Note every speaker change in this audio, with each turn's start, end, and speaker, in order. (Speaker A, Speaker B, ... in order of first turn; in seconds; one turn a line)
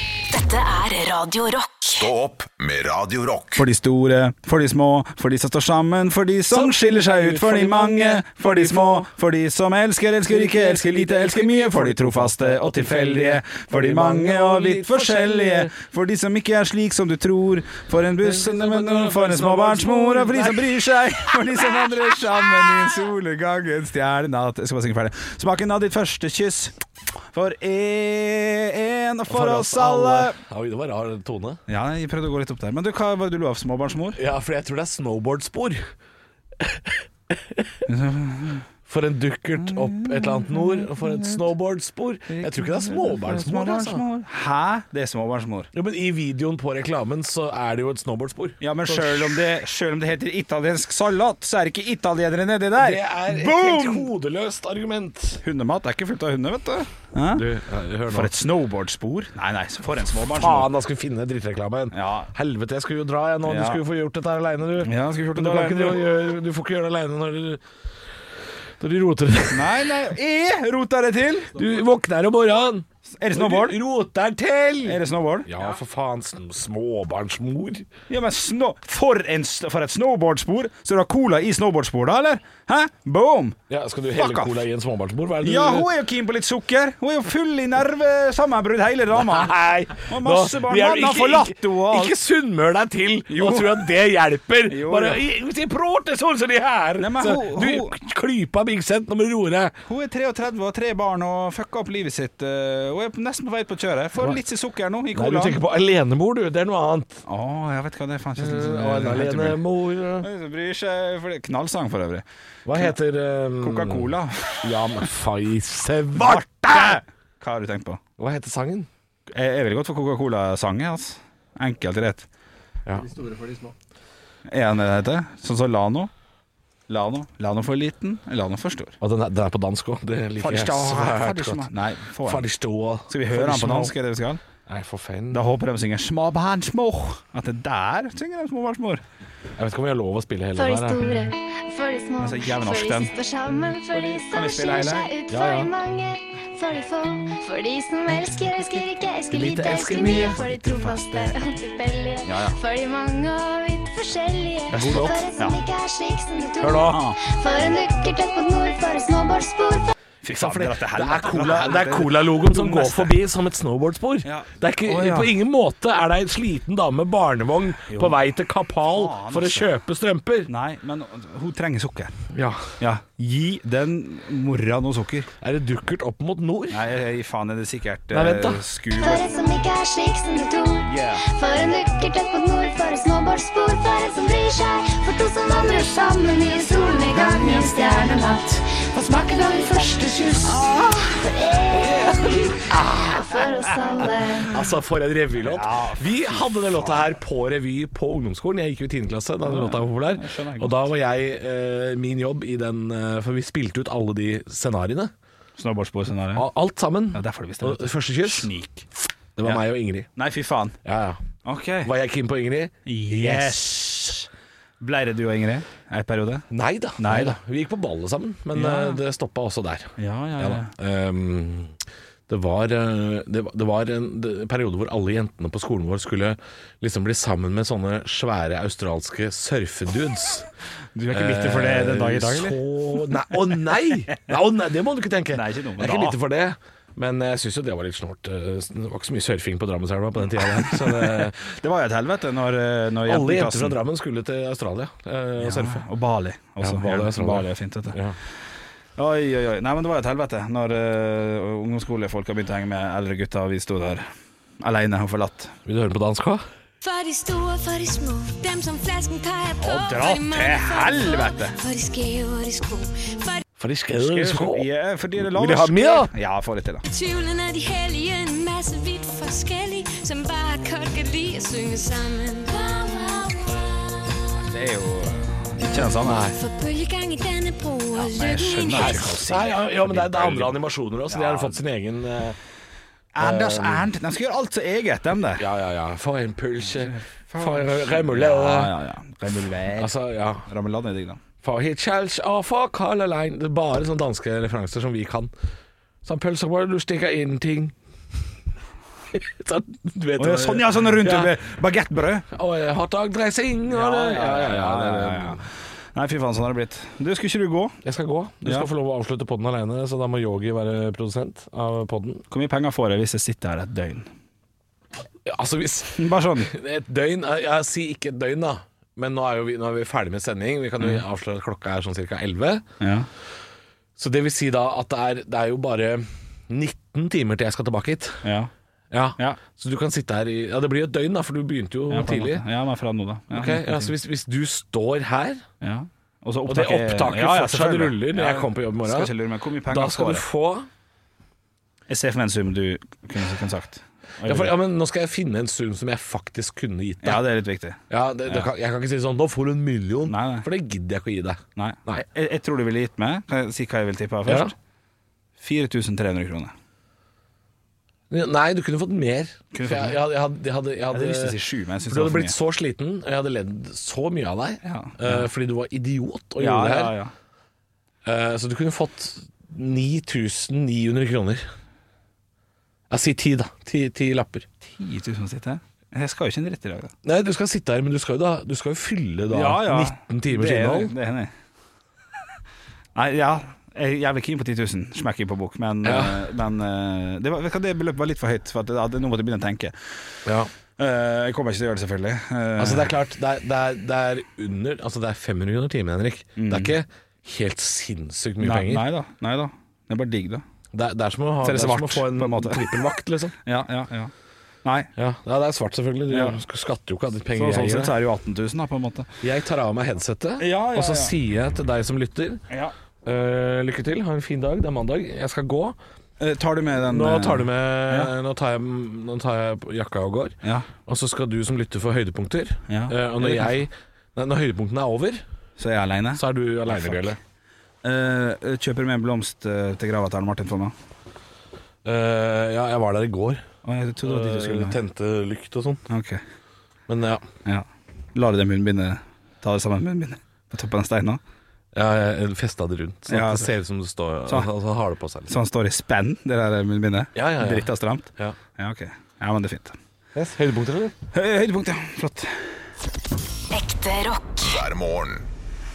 Speaker A: 0.3-2.1
Speaker B: 1.9-3.6
Speaker C: 3.6-26.8
Speaker D: 6.5-9.1
Speaker D: 10.3-15.8
Speaker D: 18.2-20.7
Speaker C: 27.3-30.4
Speaker D: 29.3-31.6
Speaker C: 31.7-34.2
Speaker D: 34.2-35.8
Speaker D: 36.6-37.9
Speaker C: 37.9-38.6
Speaker D: 38.9-44.0
Speaker C: 39.6-41.4
Speaker C: 42.3-45.7
Speaker D: 45.7-49.4
Speaker C: 48.6-54.1
Speaker D: 52.8-55.4
Speaker C: 55.4-57.5
Speaker D: 57.3-58.3
Speaker C: 58.1-60.7
Speaker D: 60.3-67.6
Speaker C: 61.9-62.3
Speaker C: 63.5-63.8
Speaker C: 64.8-66.1
Speaker D: 68.8-69.9
Speaker C: 69.5-71.6
Speaker D: 71.5-77.9
Speaker C: 73.1-73.8
Speaker C: 74.8-75.5
Speaker C: 78.1-83.6
Speaker D: 83.7-85.9
Speaker C: 84.1-84.6
Speaker C: 85.4-92.2
Speaker D: 89.2-99.8
Speaker C: 93.3-93.9
Speaker C: 94.7-95.2
Speaker C: 97.0-98.0
Speaker C: 99.9-105.6
Speaker D: 105.1-107.2
Speaker C: 107.3-109.6
Speaker D: 108.4-110.3
Speaker C: 110.2-113.0
Speaker D: 112.7-117.0
Speaker C: 113.6-114.7
Speaker C: 116.2-118.0
Speaker D: 118.2-118.9
Speaker C: 119.3-122.3
Speaker C: 124.5-126.1
Speaker C: 126.9-129.0
Speaker D: 129.0-131.7
Speaker C: 130.4-132.5
Speaker D: 132.2-133.9
Speaker C: 133.1-134.4
Speaker D: 134.7-135.4
Speaker C: 135.3-139.0
Speaker D: 139.6-141.1
Speaker E: 140.6-159.9
Speaker C: 142.2-143.1
Speaker C: 143.9-145.1
Speaker D: 145.3-145.7
Speaker D: 149.3-151.3
Speaker C: 152.2-152.6
Speaker D: 154.7-155.2
Speaker C: 154.8-155.6
Speaker D: 156.6-157.0
Speaker C: 156.8-157.2
Speaker C: 160.2-163.2
Speaker D: 160.3-170.5
Speaker C: 164.2-165.3
Speaker C: 167.9-168.2
Speaker C: 168.9-169.7
Speaker C: 170.5-172.2
Speaker D: 172.3-172.7
Speaker C: 172.8-175.3
Speaker D: 175.4-176.8
Speaker C: 176.7-179.2
Speaker D: 178.1-178.6
Speaker E: 178.9-194.6
Speaker C: 180.8-181.2
Speaker C: 190.4-190.7
Speaker D: 191.7-193.4
Speaker D: 194.5-205.1
Speaker C: 195.4-197.1
Speaker C: 199.4-200.9
Speaker C: 205.6-206.5
Speaker D: 206.3-208.5
Speaker C: 207.1-208.9
Speaker D: 209.4-210.1
Speaker C: 210.2-210.8
Speaker D: 210.8-211.2
Speaker C: 211.4-211.9
Speaker D: 211.8-213.9
Speaker C: 212.9-214.3
Speaker C: 214.8-216.5
Speaker D: 216.5-221.7
Speaker C: 217.0-217.4
Speaker C: 218.5-219.0
Speaker C: 220.0-220.7
Speaker D: 222.3-230.5
Speaker C: 230.9-232.6
Speaker D: 231.1-241.4
Speaker C: 235.3-236.2
Speaker C: 240.4-243.8
Speaker D: 243.1-245.9
Speaker C: 245.4-248.0
Speaker D: 246.6-248.2
Speaker C: 249.0-254.1
Speaker C: 254.6-255.6
Speaker D: 255.7-256.4
Speaker F: 256.8-263.4
Speaker C: 259.6-261.6
Speaker D: 263.6-266.1
Speaker C: 264.0-266.9
Speaker F: 266.9-272.8
Speaker E: 272.7-273.6
Speaker C: 274.4-276.2
Speaker D: 275.8-276.4
Speaker F: 276.4-279.1
Speaker C: 277.9-281.6
Speaker D: 278.7-282.4
Speaker C: 283.1-285.5
Speaker D: 283.2-283.9
Speaker D: 285.4-288.7
Speaker C: 286.7-291.2
Speaker D: 289.8-290.4
Speaker D: 291.4-295.3
Speaker D: 296.0-297.8
Speaker D: 299.1-301.3
Speaker C: 300.2-302.3
Speaker D: 302.3-305.4
Speaker C: 303.7-305.4
Speaker C: 305.9-307.8
Speaker D: 307.8-312.2
Speaker C: 308.4-308.7
Speaker C: 312.3-314.1
Speaker D: 315.3-322.6
Speaker C: 316.0-316.5
Speaker C: 322.8-323.1
Speaker D: 324.0-328.3
Speaker C: 328.2-328.5
Speaker D: 328.9-332.4
Speaker C: 331.9-333.9
Speaker D: 333.3-335.4
Speaker C: 335.6-340.2
Speaker D: 336.5-339.1
Speaker D: 339.6-340.7
Speaker C: 341.9-344.6
Speaker D: 344.2-347.3
Speaker C: 347.0-348.5
Speaker D: 347.9-352.1
Speaker C: 350.1-350.5
Speaker C: 351.6-354.5
Speaker D: 354.3-354.5
Speaker C: 355.4-356.5
Speaker D: 358.1-367.0
Speaker C: 359.5-360.0
Speaker C: 360.9-362.4
Speaker C: 364.6-365.3
Speaker C: 366.4-367.1
Speaker D: 368.0-371.4
Speaker D: 372.9-374.5
Speaker C: 374.7-376.9
Speaker D: 377.0-380.9
Speaker C: 379.3-381.3
Speaker C: 383.0-389.7
Speaker D: 385.8-386.2
Speaker C: 390.8-392.9
Speaker D: 392.6-398.9
Speaker C: 396.4-396.8
Speaker C: 398.4-400.4
Speaker D: 400.7-403.4
Speaker C: 401.4-402.6
Speaker C: 403.4-404.1
Speaker C: 404.6-404.9
Speaker D: 405.0-408.0
Speaker C: 406.1-406.4
Speaker C: 407.3-409.1
Speaker D: 409.2-412.4
Speaker C: 410.4-411.1
Speaker D: 413.0-415.8
Speaker C: 416.2-418.1
Speaker D: 416.8-425.2
Speaker C: 420.4-420.7
Speaker C: 422.7-423.5
Speaker C: 425.6-427.1
Speaker D: 426.1-427.2
Speaker C: 427.8-430.8
Speaker D: 431.9-433.4
Speaker C: 433.6-434.8
Speaker D: 434.0-435.9
Speaker C: 435.9-436.2
Speaker D: 436.9-437.2
Speaker C: 437.4-441.2
Speaker D: 441.7-445.4
Speaker C: 443.1-443.5
Speaker C: 445.3-449.8
Speaker D: 447.1-448.4
Speaker D: 450.1-450.9
Speaker C: 451.1-452.4
Speaker A: 453.5-454.6
Speaker B: 454.4-455.3